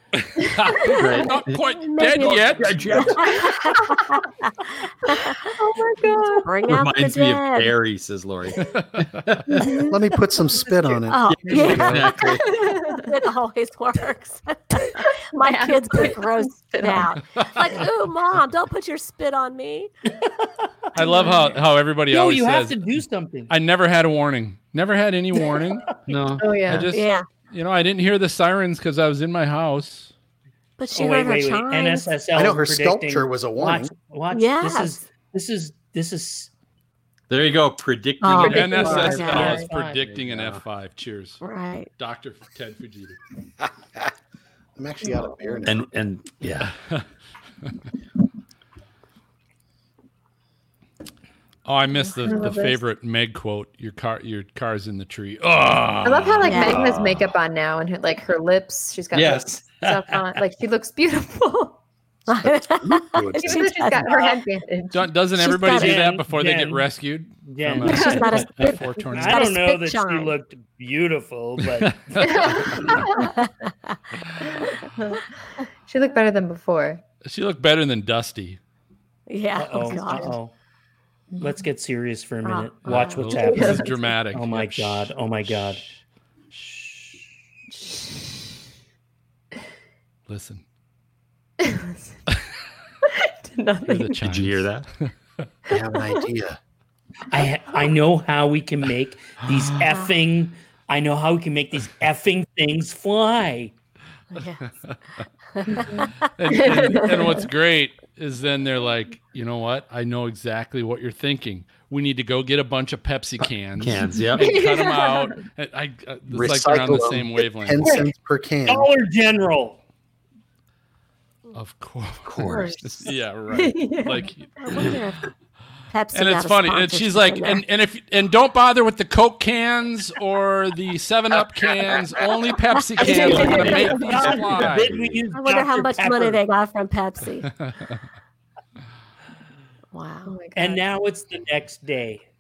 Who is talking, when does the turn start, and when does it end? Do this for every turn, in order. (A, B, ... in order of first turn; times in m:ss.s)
0:00.2-0:03.2 A
0:00.9-0:01.6 B
0:01.8-0:05.4 C
0:02.2-0:03.7 B
0:05.4-0:06.5 D
0:06.2-0:07.7 C
0:06.6-0:09.7 B
0:08.6-0:09.2 A
0:09.5-0:11.0 D
0:09.8-0:12.3 E
0:11.1-0:19.9 C
0:11.6-0:12.5 B
0:12.2-0:13.1 D
0:15.4-0:17.2 D
0:20.9-0:22.8 A
0:21.0-0:21.5 D
0:22.1-0:23.5 F
0:23.5-0:30.1 A
0:26.1-0:26.6 B
0:26.4-0:26.9 D
0:26.9-0:27.2 C
0:30.8-0:32.1 C
0:30.9-0:36.5 F
0:32.3-0:33.9 E
0:34.3-0:35.0 C
0:37.3-0:39.4 B
0:38.2-0:39.5 C
0:38.4-0:39.7 D
0:38.4-0:41.4 A
0:38.8-0:40.1 F
0:40.1-0:40.6 B
0:41.4-0:41.9 C
0:42.0-0:43.2 A
0:44.8-0:45.8 E
0:45.6-0:46.7 B
0:51.6-0:56.6 A
0:52.2-0:52.8 D
0:56.0-1:01.8 D
0:56.4-0:56.8 C
0:56.6-0:57.3 B
0:59.1-1:00.1 B
1:02.3-1:04.1 C
1:02.3-1:03.9 E
1:03.3-1:05.1 D
1:04.9-1:09.5 A
1:05.3-1:06.0 C
1:05.6-1:06.9 F
1:07.4-1:08.4 F
1:07.8-1:10.3 C
1:07.8-1:09.0 D
1:09.1-1:12.1 F
1:11.8-1:13.0 A
1:12.2-1:13.3 D
1:13.2-1:14.0 C
1:14.4-1:15.2 D
1:15.8-1:17.0 D
1:17.2-1:18.6 A
1:19.3-1:20.3 C
1:19.6-1:20.5 F
1:20.0-1:20.3 D
1:21.3-1:21.6 D
1:21.4-1:25.9 F
1:22.4-1:23.6 C
1:22.8-1:25.9 A
1:23.4-1:24.1 D
1:26.6-1:27.1 F
1:27.8-1:28.1 D
1:30.3-1:30.6 A
1:31.6-1:32.1 D
1:33.0-1:34.2 D
1:33.8-1:35.1 A
1:34.2-1:34.9 B
1:35.7-1:36.6 E
1:35.7-1:36.2 D
1:37.3-1:43.7 F
1:39.5-1:39.8 A
1:44.3-1:44.7 C
1:45.5-1:46.1 C
1:45.7-1:47.4 D
1:45.8-1:58.0 A
1:53.8-1:54.6 B
1:54.4-1:55.4 D
1:56.3-1:58.9 E
1:58.6-1:59.8 F
2:01.5-2:04.6 A
2:02.3-2:03.1 B
2:02.4-2:02.8 D
2:03.5-2:04.3 D
2:04.6-2:05.3 C
2:05.9-2:07.6 C
2:06.1-2:15.0 A
2:13.0-2:15.2 B
2:13.0-2:16.4 F
2:13.0-2:13.8 D
2:13.3-2:13.8 C
2:15.3-2:17.5 C
2:17.6-2:18.0 A
2:19.9-2:20.4 C
2:20.3-2:20.8 D
2:20.6-2:22.3 F